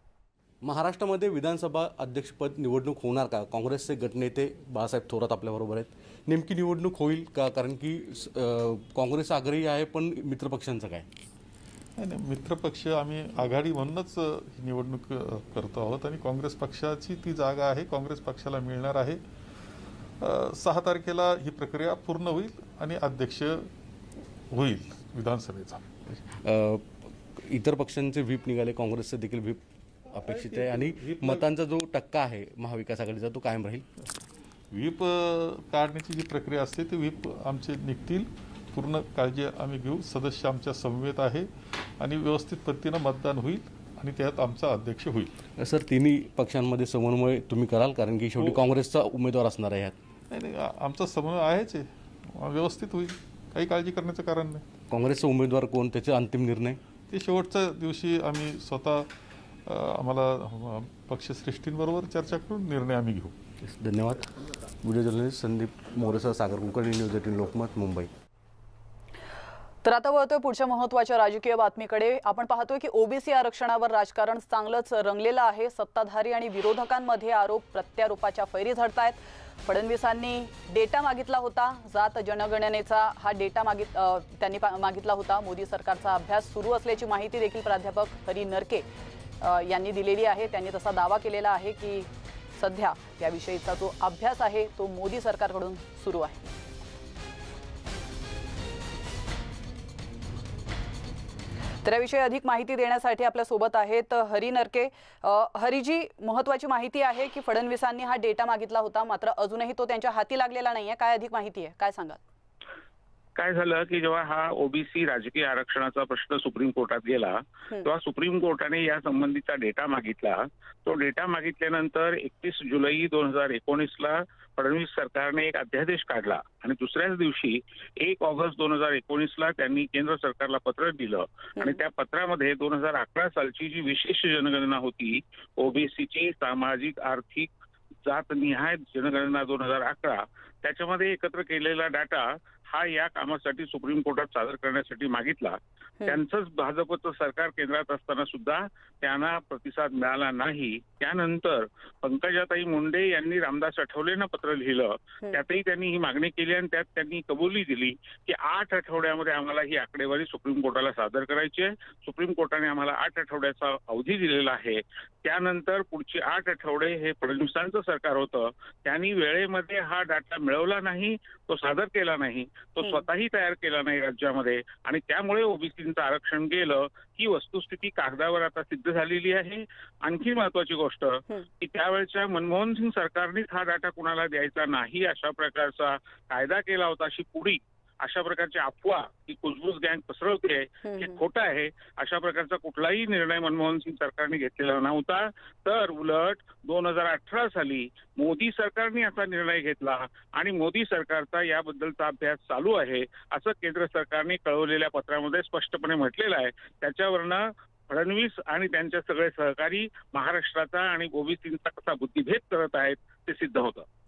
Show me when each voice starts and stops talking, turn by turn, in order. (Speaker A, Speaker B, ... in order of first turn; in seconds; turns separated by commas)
Speaker A: 0.6-11.1, Speaker B: 12.0-19.2, Speaker B: 20.2-23.7, Speaker B: 24.5-25.8, Speaker A: 26.1-29.6, Speaker A: 30.1-33.9, Speaker B: 30.2-31.4, Speaker B: 34.7-45.4, Speaker A: 45.6-50.0, Speaker B: 50.3-54.6, Speaker A: 54.9-56.8, Speaker B: 57.1-59.1, Speaker B: 59.7-63.4, Speaker A: 63.6-68.1, Speaker C: 69.8-88.8, Speaker C: 89.4-96.5, Speaker C: 101.8-112.2, Speaker D: 113.4-137.5, Speaker D: 138.1-213.8, Speaker C: 190.8-191.2